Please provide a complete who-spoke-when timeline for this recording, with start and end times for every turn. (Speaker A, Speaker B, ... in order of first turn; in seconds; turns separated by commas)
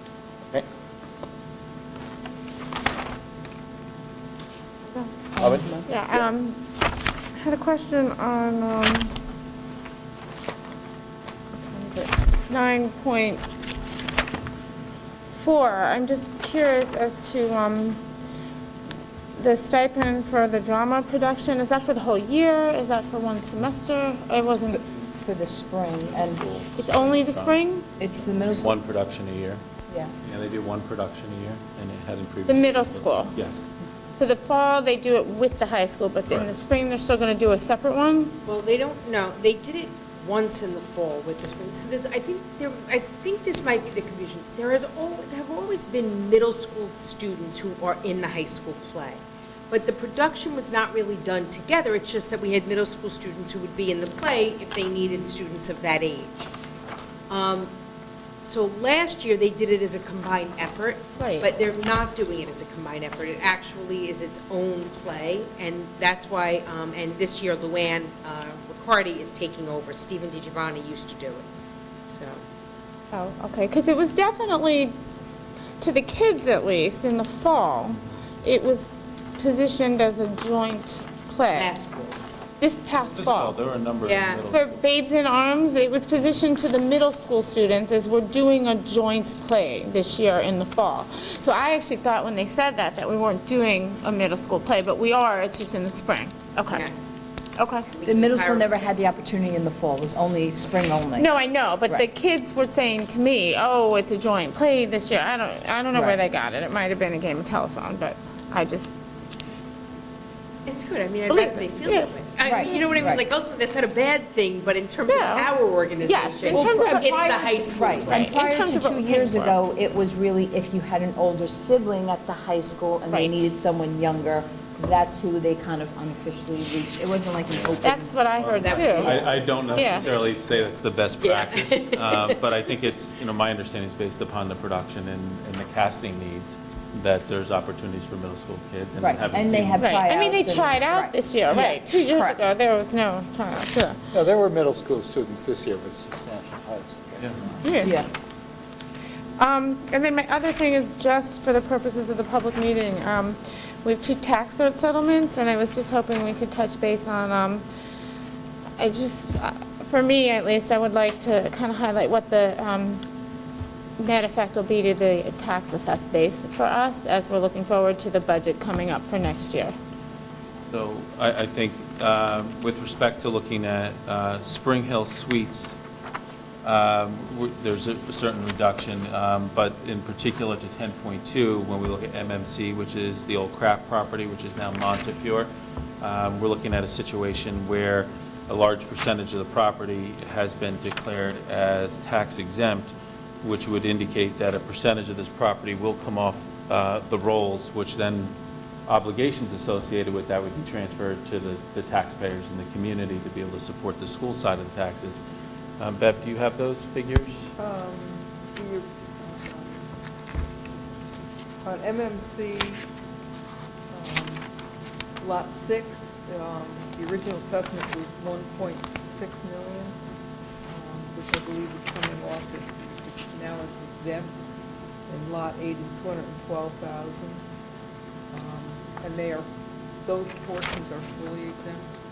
Speaker A: 5.4-5.9, Speaker B: 5.4-6.2, Speaker C: 5.9-6.6, Speaker C: 7.4-9.1, Speaker C: 11.6-13.5, Speaker C: 15.3-18.0, Speaker C: 19.4-24.8, Speaker A: 25.2-26.5, Speaker D: 26.1-27.6, Speaker C: 26.8-27.9, Speaker A: 28.0-28.8, Speaker D: 28.2-29.6, Speaker D: 30.2-33.6, Speaker C: 32.5-33.4, Speaker C: 34.1-38.4, Speaker E: 38.5-56.5, Speaker E: 57.3-57.7, Speaker E: 58.4-71.5, Speaker C: 61.2-61.5, Speaker E: 72.1-72.4, Speaker C: 73.1-75.0, Speaker C: 75.8-81.8, Speaker E: 81.5-82.2, Speaker C: 82.6-83.6, Speaker D: 83.2-84.8, Speaker E: 84.0-84.5, Speaker C: 84.5-96.9, Speaker E: 96.7-97.1, Speaker C: 97.6-97.9, Speaker E: 97.9-98.7, Speaker A: 98.0-101.3, Speaker C: 101.2-108.9, Speaker E: 110.7-118.3, Speaker C: 111.3-112.1, Speaker A: 112.4-113.2, Speaker C: 115.1-117.1, Speaker A: 116.5-129.2, Speaker C: 118.2-119.5, Speaker C: 123.1-123.5, Speaker C: 127.8-129.2, Speaker D: 128.4-139.9, Speaker E: 128.5-130.5, Speaker C: 129.8-130.1, Speaker E: 131.2-132.4, Speaker A: 139.0-142.4, Speaker C: 139.8-144.0, Speaker B: 144.1-147.8, Speaker C: 147.6-147.9, Speaker A: 147.8-148.1, Speaker C: 149.4-157.6, Speaker C: 158.8-163.0, Speaker C: 164.0-169.8, Speaker D: 170.7-175.8, Speaker D: 176.6-185.5, Speaker D: 186.0-198.3, Speaker D: 198.9-205.2, Speaker D: 205.8-207.5, Speaker F: 207.6-209.9, Speaker F: 211.6-212.8, Speaker F: 213.9-214.4, Speaker F: 215.2-220.0, Speaker F: 220.7-224.3, Speaker F: 225.1-227.4, Speaker F: 228.3-229.5, Speaker F: 230.1-231.9